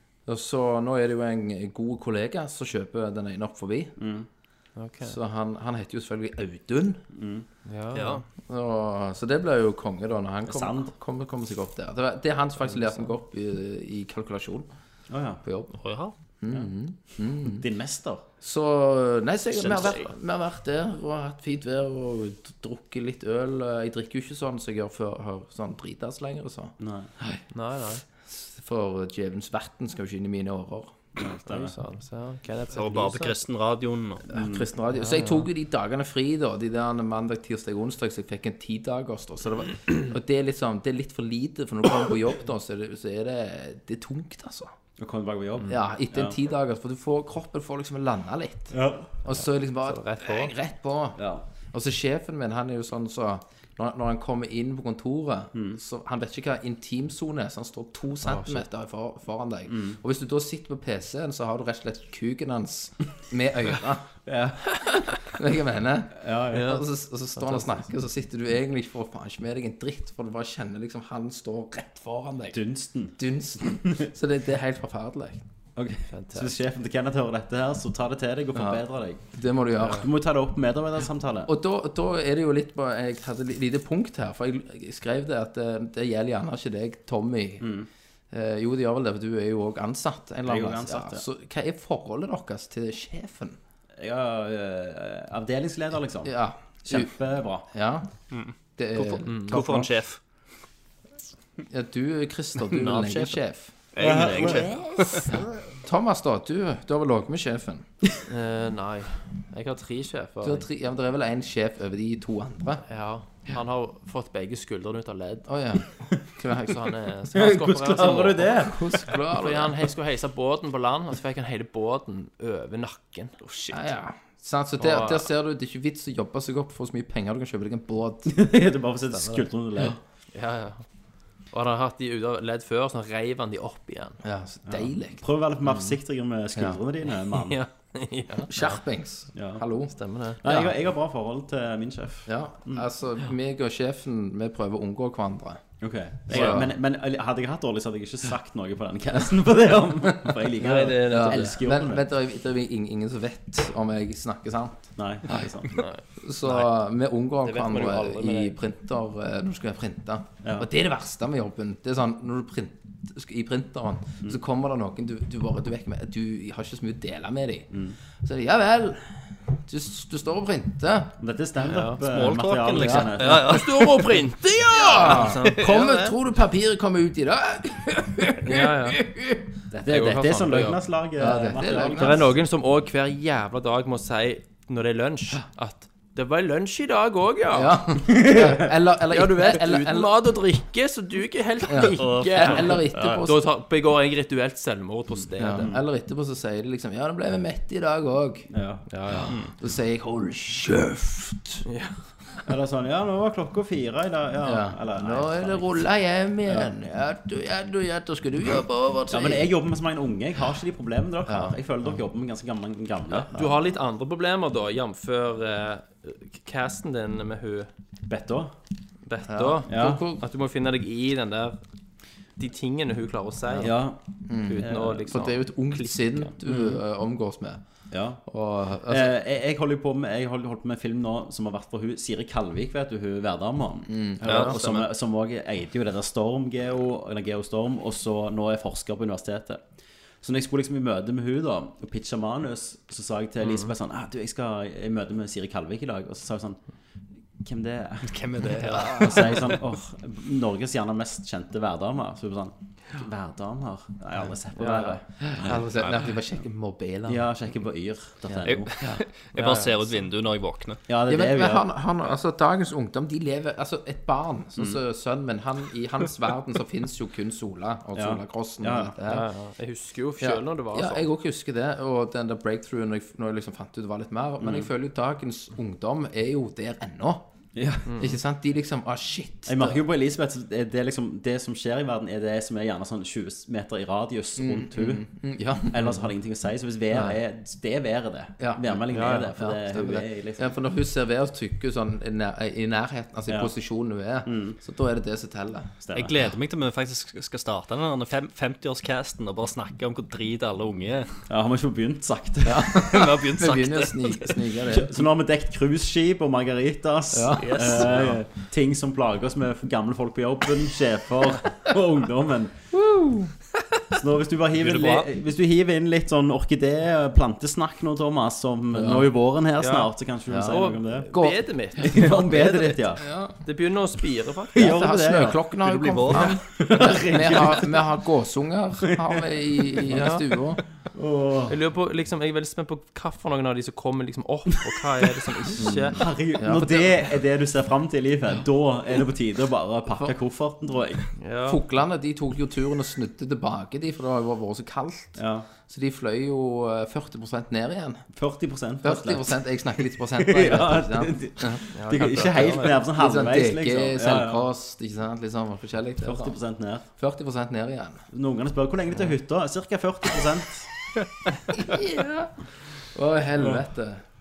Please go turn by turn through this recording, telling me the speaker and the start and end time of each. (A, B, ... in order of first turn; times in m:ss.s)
0:00.3-0:04.0 A
0:04.0-0:04.3 B
0:04.8-0:05.2 C
0:05.0-0:07.0 A
0:07.1-0:07.5 B
0:07.7-0:08.2 C
0:07.9-0:08.2 D
0:08.5-0:14.7 A
0:10.5-0:10.9 B
0:15.1-0:15.4 B
0:15.4-0:15.8 A
0:15.8-0:16.1 D
0:16.4-0:17.6 A
0:17.4-0:18.2 B
0:18.4-0:27.4 A
0:19.6-0:20.0 D
0:26.8-0:27.1 B
0:27.5-0:28.0 C
0:28.2-0:31.0 A
0:31.2-0:31.8 B
0:31.5-0:33.4 C
0:32.7-0:34.2 D
0:34.3-0:34.7 B
0:34.3-0:44.7 A
0:35.0-0:35.5 C
0:45.0-0:46.4 B
0:45.6-0:51.2 A
0:48.7-0:49.2 B
0:49.3-0:50.5 C
0:51.2-0:51.4 B
0:51.7-1:04.1 A
0:55.5-0:55.8 B
0:58.2-0:58.6 C
0:59.7-1:00.0 B
1:04.2-1:04.7 B
1:05.2-1:12.6 A
1:06.2-1:06.8 B
1:06.5-1:06.8 C
1:07.4-1:07.8 C
1:12.5-1:13.2 B
1:13.2-1:15.4 A
1:15.8-1:19.2 B
1:16.1-1:16.5 C
1:18.6-1:20.1 A
1:19.8-1:21.5 B
1:21.5-1:27.7 A
1:27.6-1:27.9 B
1:28.3-1:33.6 A
1:30.4-1:31.2 B
1:34.0-1:37.7 B
1:36.2-1:37.1 A
1:37.7-1:38.1 A
1:38.3-1:40.2 D
1:38.8-1:39.9 A
1:39.2-1:39.6 C
1:41.7-1:43.7 A
1:42.7-1:43.4 D
1:43.9-1:45.3 D
1:44.0-1:44.8 B
1:45.3-1:47.9 A
1:48.2-1:50.6 C
1:50.4-1:52.8 A
1:52.9-1:55.5 C
1:55.5-1:56.8 A
1:56.5-1:58.7 C
1:57.3-1:59.1 B
1:58.6-1:59.8 A
1:59.2-2:03.8 C
2:03.7-2:08.3 A
2:04.8-2:05.3 C
2:08.2-2:10.0 B
2:09.1-2:09.5 C
2:10.3-2:10.8 C
2:11.5-2:14.2 C
2:14.2-2:15.2 A
2:14.7-2:17.6 B
2:17.2-2:18.8 C
2:18.5-2:19.9 A
2:19.4-2:19.6 B
2:19.9-2:20.6 C
2:20.4-2:22.9 B
2:22.2-2:25.6 A
2:25.8-2:32.1 B
2:26.3-2:26.7 A
2:30.6-2:31.6 C
2:31.0-2:35.5 A
2:35.0-2:35.9 B
2:35.7-2:36.7 C
2:36.2-2:51.2 A
2:37.4-2:38.6 C
2:40.4-2:40.7 B
2:51.2-2:53.7 B
2:51.7-2:52.0 C
2:52.0-2:54.1 D
2:52.8-2:53.1 A
2:53.2-2:55.8 C
2:54.7-2:59.5 A
2:55.0-2:56.1 D
2:58.4-2:59.0 C
2:59.7-3:02.3 B
2:59.9-3:00.8 C
3:01.2-3:02.2 A
3:01.9-3:08.3 C
3:07.5-3:10.1 A
3:08.1-3:08.6 B
3:09.1-3:15.7 C
3:11.7-3:13.4 A
3:12.0-3:13.2 D
3:15.1-3:15.8 B
3:15.4-3:18.5 A
3:18.5-3:18.9 B
3:18.9-3:19.3 C
3:19.1-3:21.6 A
3:21.7-3:22.0 C
3:22.4-3:25.8 B
3:24.4-3:29.5 A
3:29.1-3:33.4 B
3:31.2-3:31.6 A
3:33.3-3:37.7 C
3:38.1-3:38.5 B
3:39.1-3:41.6 C
3:39.2-3:40.2 A
3:39.7-3:40.0 B
3:42.4-3:43.8 C
3:43.6-3:45.1 B
3:44.3-3:47.6 A
3:44.5-3:46.3 C
3:46.5-3:46.8 B
3:47.9-3:48.2 B
3:48.2-3:49.1 A
3:48.9-3:59.6 B
3:53.9-3:54.6 A
3:54.2-3:54.9 D
4:00.2-4:06.6 B
4:07.4-4:15.7 B
4:08.0-4:09.6 D
4:14.6-4:15.0 C
4:15.2-4:17.2 A
4:17.1-4:18.7 B
4:18.3-4:19.0 A
4:18.4-4:20.8 D
4:19.4-4:20.0 C
4:20.9-4:21.7 B
4:21.1-4:29.3 A
4:28.0-4:29.0 B
4:29.1-4:31.1 C
4:30.2-4:37.2 A
4:34.4-4:34.7 B
4:37.6-4:37.9 B
4:37.9-4:38.2 C
4:38.0-4:39.8 A
4:39.5-4:45.1 B
4:44.4-4:46.1 A
4:45.7-4:50.5 B
4:46.9-4:47.2 A
4:48.4-4:55.7 A
4:48.9-4:49.3 C
4:54.2-4:54.6 B
4:55.8-4:56.2 B
4:55.9-5:01.2 D
5:01.3-5:02.8 B
5:02.4-5:04.9 A
5:02.7-5:04.4 D
5:04.7-5:12.5 B
5:07.1-5:07.9 A
5:07.4-5:08.2 D
5:12.7-5:13.3 A
5:13.9-5:21.1 B
5:14.6-5:15.1 D
5:18.7-5:19.1 A
5:19.6-5:22.8 C
5:20.3-5:20.6 A
5:21.1-5:21.5 A
5:21.8-5:23.0 B
5:23.0-5:23.4 A
5:23.4-5:24.8 C
5:24.5-5:25.5 B
5:24.6-5:30.6 A
5:25.6-5:26.4 D
5:26.1-5:27.8 B
5:28.8-5:30.0 B
5:29.9-5:30.2 C
5:30.9-5:31.6 B
5:31.5-5:36.0 C
5:35.5-5:41.1 B
5:36.4-5:36.9 A
5:41.2-5:41.6 C
5:41.4-5:48.0 A
5:45.2-5:45.5 B
5:48.1-5:54.4 B
5:48.8-5:51.6 A
5:51.7-5:52.8 C
5:52.9-5:56.4 A
5:56.0-5:56.8 B
5:56.9-5:58.0 A
5:58.1-6:00.7 B
6:01.5-6:02.3 A
6:02.9-6:04.0 A